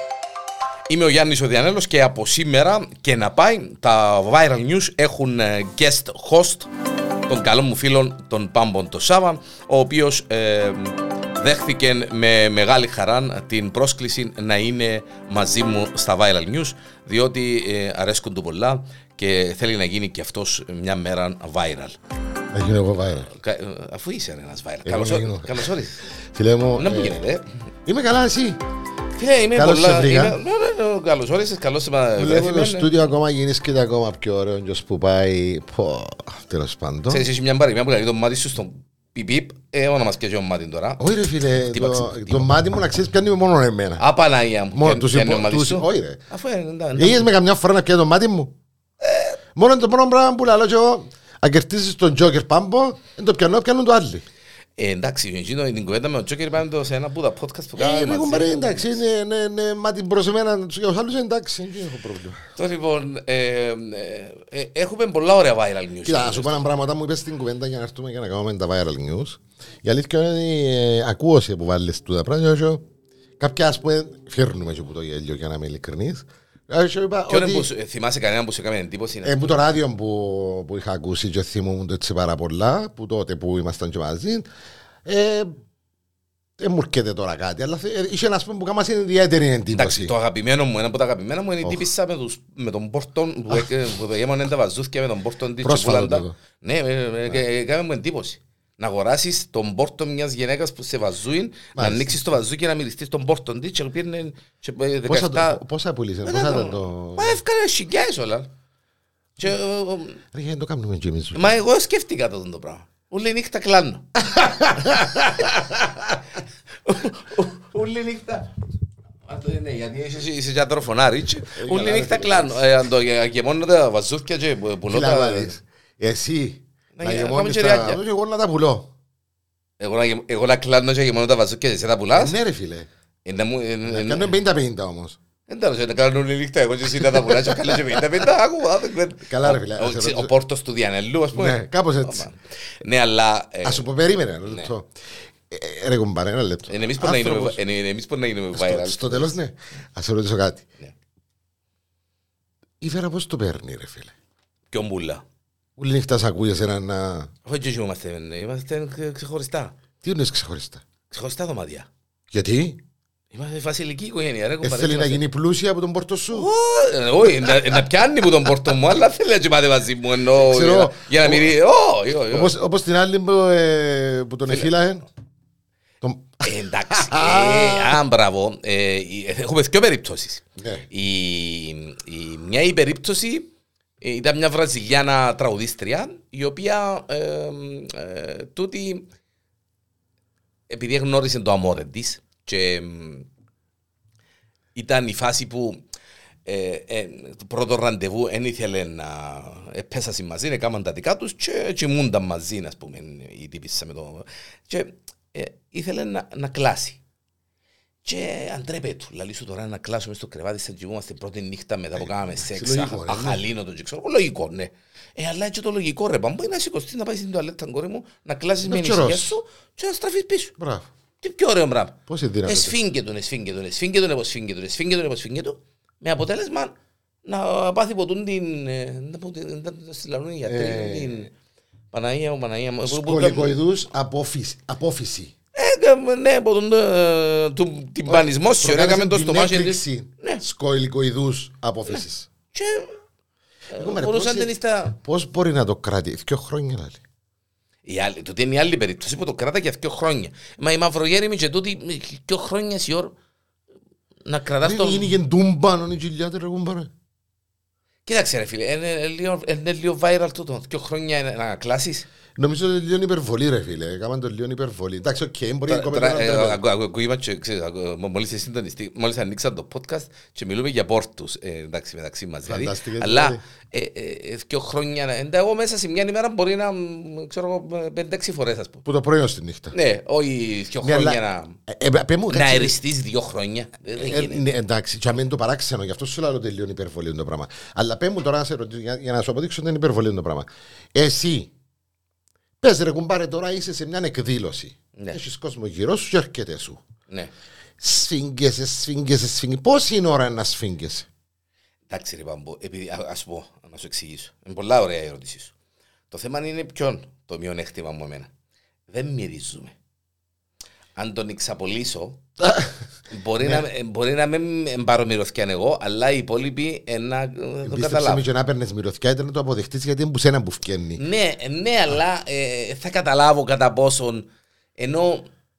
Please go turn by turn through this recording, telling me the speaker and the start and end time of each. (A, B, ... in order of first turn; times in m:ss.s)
0:00.9-0:06.7 A
0:07.3-0:22.0 A
0:22.5-0:23.3 B
0:23.3-0:26.0 A
0:24.8-0:25.7 B
0:26.3-0:27.2 B
0:26.8-0:27.4 A
0:27.9-0:28.6 B
0:29.2-0:32.9 A
0:29.6-0:30.4 B
0:32.2-0:37.3 B
0:37.1-0:42.4 A
0:41.0-0:44.0 B
0:44.0-0:47.3 A
0:44.7-0:46.2 B
0:47.0-0:48.5 B
0:49.0-0:49.4 A
0:49.6-0:54.2 B
0:54.8-0:59.0 A
0:57.8-1:02.4 B
1:02.6-1:06.6 A
1:06.0-1:12.8 B
1:13.4-1:17.7 B
1:17.3-1:19.5 A
1:19.2-1:24.5 B
1:25.0-1:25.5 B
1:26.6-1:30.1 B
1:29.7-1:45.6 A
1:31.6-1:31.9 B
1:35.6-1:36.4 B
1:41.8-1:42.2 B
1:45.1-1:47.4 B
1:46.2-1:48.5 A
1:49.4-1:50.2 A
1:50.3-1:51.6 B
1:51.4-1:54.1 A
1:54.2-1:56.0 B
1:55.4-1:56.1 A
1:56.8-1:58.5 A
1:59.3-2:05.6 A
2:01.5-2:02.6 B
2:04.9-2:08.9 B
2:07.0-2:08.0 A
2:09.8-2:12.4 A
2:12.1-2:12.9 B
2:13.2-2:14.3 A
2:13.8-2:15.2 B
2:15.5-2:23.8 A
2:17.0-2:18.0 B
2:19.3-2:20.3 B
2:21.3-2:22.3 B
2:23.6-2:24.9 B
2:25.5-2:27.6 B
2:26.7-2:29.4 A
2:28.5-2:30.7 B
2:32.8-2:34.1 B
2:34.7-2:35.2 A
2:35.8-2:37.3 B
2:37.5-2:39.8 A
2:40.0-2:40.8 B
2:41.1-2:41.9 A
2:42.3-2:42.8 B
2:43.3-2:45.2 A
2:44.6-2:46.5 B
2:46.3-2:52.5 A
2:50.3-2:51.5 B
2:52.3-2:55.1 B
2:56.0-2:58.0 B
2:56.4-3:03.5 A
3:00.6-3:00.9 B
3:04.0-3:09.1 A
3:10.7-3:13.3 A
3:14.8-3:15.8 A
3:16.5-3:27.0 A
3:28.0-3:40.5 A
3:32.0-3:33.4 B
3:38.6-3:39.4 B
3:40.6-3:40.9 B
3:41.2-3:51.3 A
3:42.1-3:42.8 B
3:50.5-3:51.2 B
3:51.9-3:53.6 A
3:52.9-3:55.3 B
3:55.6-4:00.4 A
3:58.1-4:02.3 B
4:02.5-4:03.0 A
4:03.7-4:05.0 A
4:03.8-4:07.0 B
4:07.8-4:13.2 A
4:14.3-4:15.1 A
4:14.6-4:16.9 B
4:18.1-4:22.1 A
4:22.4-4:26.6 B
4:25.7-4:38.8 A
4:32.4-4:33.4 B
4:38.8-4:39.8 B
4:39.7-4:41.6 A
4:40.8-4:42.8 B
4:42.3-4:44.4 A
4:44.0-4:51.5 B
4:52.6-4:56.8 B
4:57.8-5:01.1 B
5:01.9-5:05.5 A
5:06.1-5:08.3 A
5:08.9-5:09.8 A
5:11.0-5:12.2 A
5:12.4-5:12.7 B
5:13.1-5:18.2 A
5:17.6-5:21.0 B
5:21.0-5:25.3 A